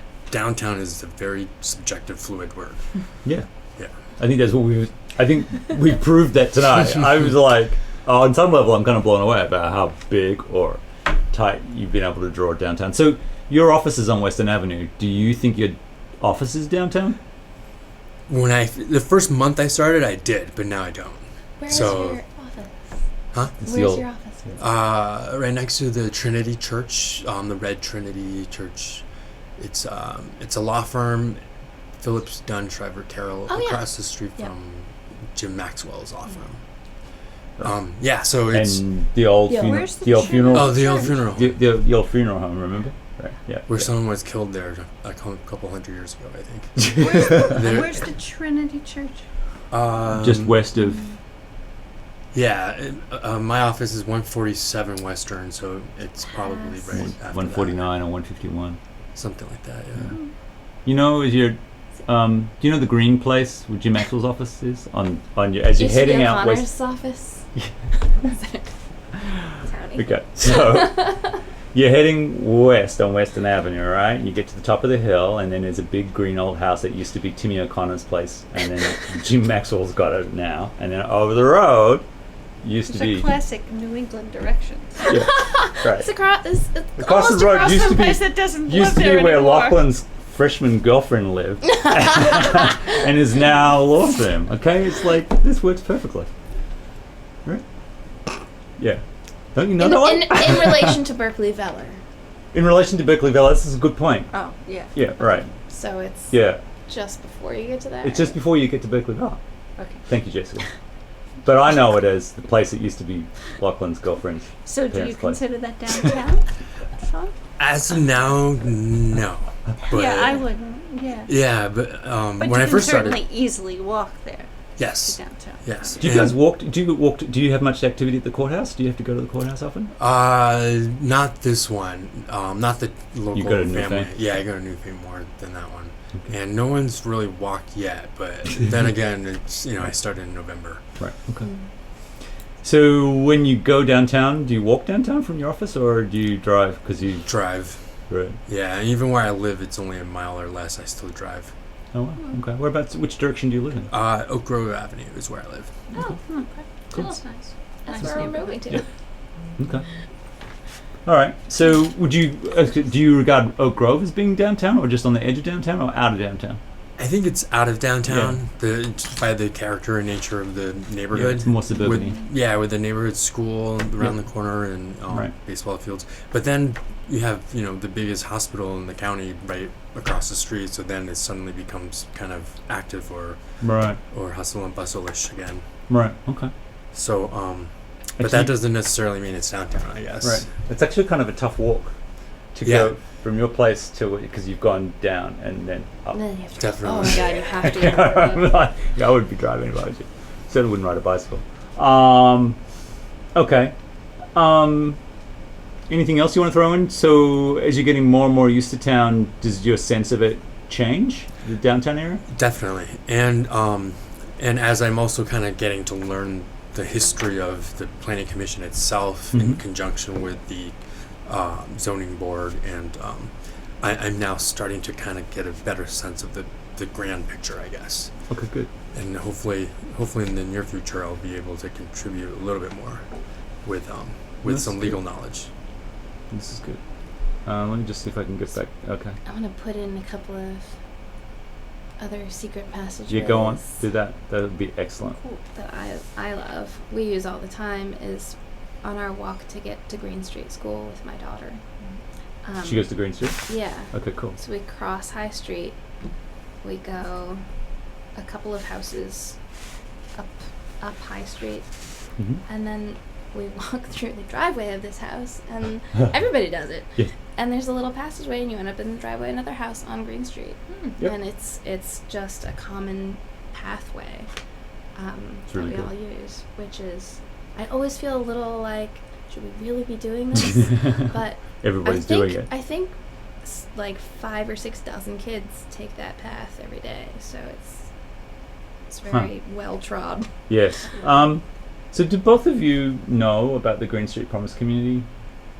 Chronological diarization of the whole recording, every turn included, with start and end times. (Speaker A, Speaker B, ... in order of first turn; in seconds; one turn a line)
Speaker A: 0.3-2.8
Speaker B: 4.2-17.2
Speaker A: 18.3-22.2
Speaker C: 21.6-22.7
Speaker B: 23.6-24.0
Speaker C: 23.6-24.6
Speaker A: 24.6-29.0
Speaker A: 29.6-31.4
Speaker A: 32.0-36.6
Speaker C: 33.5-34.5
Speaker A: 37.6-38.8
Speaker B: 38.5-43.9
Speaker D: 39.6-41.2
Speaker A: 40.5-41.5
Speaker A: 43.7-48.0
Speaker D: 46.9-49.2
Speaker A: 49.7-50.6
Speaker B: 50.2-51.0
Speaker A: 52.3-57.8
Speaker C: 56.3-57.0
Speaker B: 56.9-58.8
Speaker A: 59.1-60.1
Speaker B: 60.9-66.6
Speaker C: 65.7-68.7
Speaker C: 69.2-71.0
Speaker B: 70.0-82.0
Speaker B: 82.6-83.4
Speaker D: 82.9-85.1
Speaker B: 85.1-86.1
Speaker C: 85.1-87.7
Speaker B: 87.0-96.3
Speaker D: 87.5-89.9
Speaker B: 99.5-101.0
Speaker C: 99.8-102.0
Speaker B: 102.5-104.3
Speaker D: 104.3-104.9
Speaker B: 104.9-105.5
Speaker C: 105.7-108.3
Speaker B: 106.3-106.6
Speaker B: 108.0-109.4
Speaker D: 109.8-110.0
Speaker B: 110.0-110.7
Speaker B: 111.4-115.4
Speaker D: 114.7-116.5
Speaker D: 117.0-117.3
Speaker A: 117.6-120.4
Speaker D: 119.9-121.3
Speaker A: 121.2-123.2
Speaker D: 122.4-125.8
Speaker A: 124.8-126.4
Speaker B: 126.0-129.9
Speaker A: 129.9-140.8
Speaker B: 133.3-134.1
Speaker B: 141.0-141.5
Speaker B: 142.6-147.3
Speaker A: 147.2-147.8
Speaker B: 148.1-148.4
Speaker A: 148.4-151.5
Speaker B: 151.9-153.9
Speaker A: 153.9-155.7
Speaker D: 155.9-157.1
Speaker C: 156.9-158.8
Speaker D: 157.9-158.8
Speaker B: 159.6-159.8
Speaker B: 161.1-166.6
Speaker A: 167.0-183.4
Speaker B: 168.1-168.4
Speaker B: 171.1-172.2
Speaker B: 183.6-184.0
Speaker A: 184.1-185.6
Speaker B: 185.9-186.5
Speaker A: 186.9-190.4
Speaker B: 188.2-188.5
Speaker B: 190.2-191.9
Speaker B: 192.5-196.2
Speaker A: 192.6-192.9
Speaker C: 196.1-198.5
Speaker A: 196.6-197.4
Speaker B: 197.3-202.6
Speaker B: 203.3-203.7
Speaker B: 204.3-205.0
Speaker B: 205.9-212.2
Speaker A: 212.3-228.1
Speaker B: 219.3-219.6
Speaker B: 228.3-228.7
Speaker A: 228.9-233.0
Speaker A: 233.6-235.5
Speaker B: 234.4-234.9
Speaker B: 236.3-236.8
Speaker B: 237.4-239.2
Speaker C: 239.2-240.7
Speaker C: 242.0-243.7
Speaker B: 243.1-245.2
Speaker D: 245.1-245.4
Speaker C: 245.5-251.6
Speaker C: 252.4-252.9
Speaker B: 252.6-254.4
Speaker C: 253.4-255.8
Speaker C: 256.6-257.4
Speaker C: 258.1-259.4
Speaker C: 260.1-261.6
Speaker C: 262.4-274.3
Speaker C: 274.9-287.8
Speaker B: 275.5-275.9
Speaker B: 281.6-282.5
Speaker C: 288.9-290.3
Speaker B: 290.5-295.1